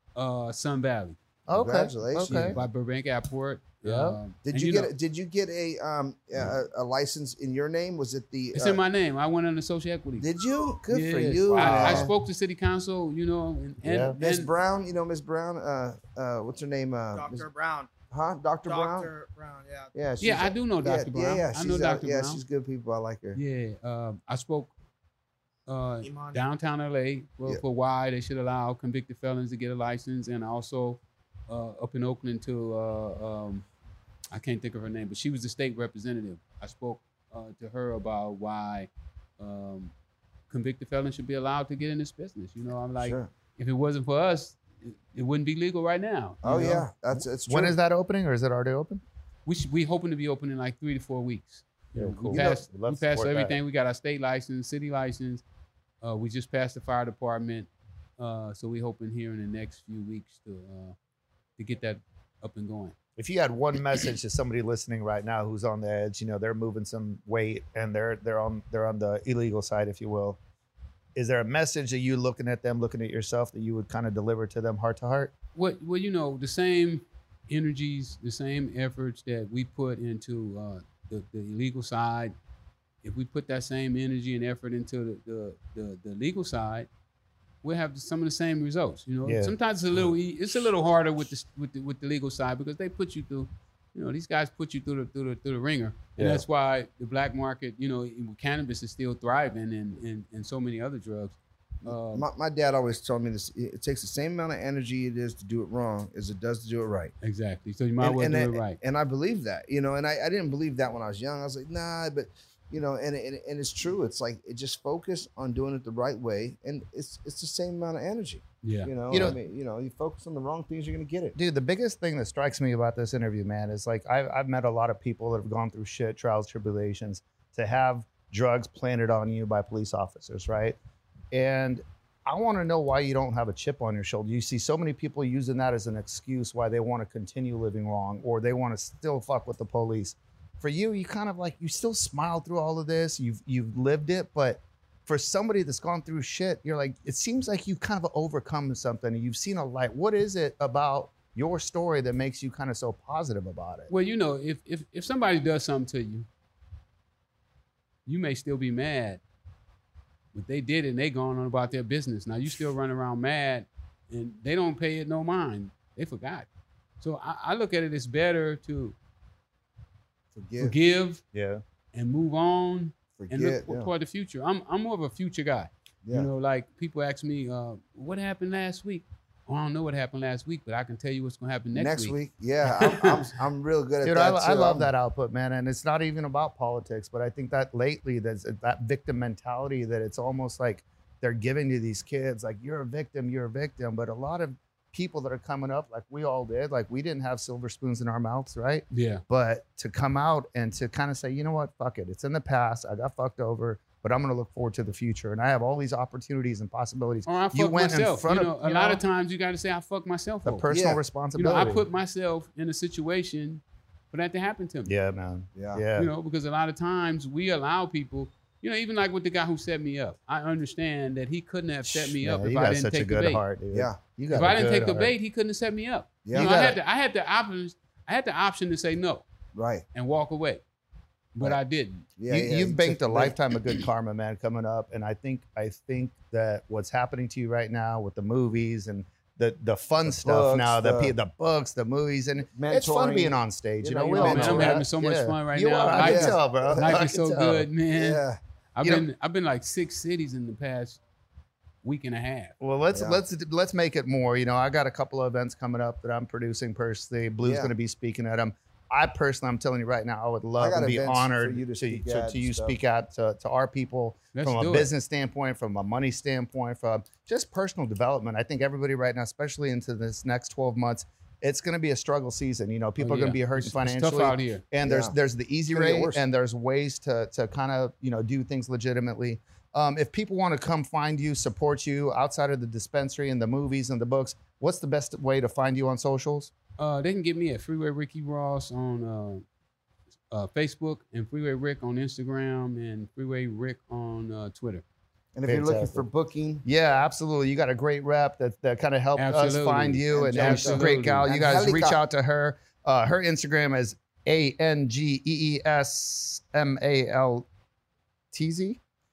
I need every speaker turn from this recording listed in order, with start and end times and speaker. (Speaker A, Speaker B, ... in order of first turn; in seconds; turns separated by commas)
Speaker A: 0.1-1.2, Speaker B: 1.5-2.6, Speaker C: 1.5-2.6, Speaker A: 2.2-4.9, Speaker B: 3.8-4.2, Speaker C: 4.4-8.8, Speaker A: 8.5-10.3, Speaker C: 10.2-12.1, Speaker A: 10.9-14.5, Speaker B: 11.5-12.1, Speaker B: 13.8-14.1, Speaker C: 14.2-17.5, Speaker D: 17.1-17.9, Speaker C: 18.1-19.1, Speaker D: 18.6-20.1, Speaker C: 19.9-23.4, Speaker A: 20.2-22.4, Speaker A: 23.3-24.7, Speaker A: 25.7-33.6, Speaker D: 26.0-26.4, Speaker A: 34.3-39.9, Speaker A: 40.5-46.9, Speaker C: 43.0-43.3, Speaker C: 46.4-47.7, Speaker B: 47.1-49.0, Speaker A: 49.5-55.4, Speaker B: 52.0-53.6, Speaker A: 56.0-60.9, Speaker A: 61.6-62.9, Speaker B: 63.2-70.4, Speaker B: 71.1-75.3, Speaker A: 75.5-82.3, Speaker A: 83.0-86.9, Speaker A: 87.6-102.3, Speaker B: 89.2-90.1, Speaker B: 96.2-96.4, Speaker C: 101.8-107.1, Speaker A: 107.2-108.8, Speaker C: 108.0-121.3, Speaker A: 118.6-118.9, Speaker B: 119.1-119.4, Speaker B: 121.3-130.8, Speaker B: 131.3-153.9, Speaker A: 153.9-156.3, Speaker A: 158.1-159.2, Speaker A: 160.3-166.5, Speaker A: 167.0-168.9, Speaker C: 170.3-170.7, Speaker A: 170.6-171.2, Speaker B: 171.3-171.6, Speaker A: 171.9-182.2, Speaker C: 173.2-173.9, Speaker C: 181.7-184.9, Speaker A: 182.7-183.3, Speaker B: 184.0-209.0, Speaker A: 198.9-199.2, Speaker A: 207.2-210.7, Speaker B: 210.4-211.8, Speaker C: 210.7-211.0, Speaker A: 211.3-214.9, Speaker B: 214.8-216.1, Speaker C: 215.5-215.8, Speaker A: 215.9-223.4, Speaker B: 221.9-225.1, Speaker C: 223.7-224.0, Speaker A: 224.3-229.2, Speaker B: 226.3-226.8, Speaker C: 229.5-229.8, Speaker A: 229.9-230.6, Speaker A: 231.3-232.1, Speaker C: 232.2-233.4, Speaker B: 232.3-247.7, Speaker C: 240.1-241.1, Speaker C: 242.5-244.8, Speaker A: 244.1-248.2, Speaker C: 245.9-246.9, Speaker C: 247.9-248.4, Speaker A: 248.8-251.0, Speaker A: 251.8-252.5, Speaker B: 252.6-286.5, Speaker C: 252.9-253.2, Speaker C: 257.4-257.7, Speaker C: 260.6-262.8, Speaker A: 264.3-264.9, Speaker A: 273.0-274.6, Speaker C: 274.8-275.1, Speaker C: 275.7-276.2, Speaker A: 286.8-289.4, Speaker A: 290.3-294.8, Speaker C: 295.3-296.6, Speaker B: 295.5-296.1, Speaker B: 296.6-307.5, Speaker A: 299.1-301.3, Speaker C: 300.1-302.0, Speaker B: 308.3-308.8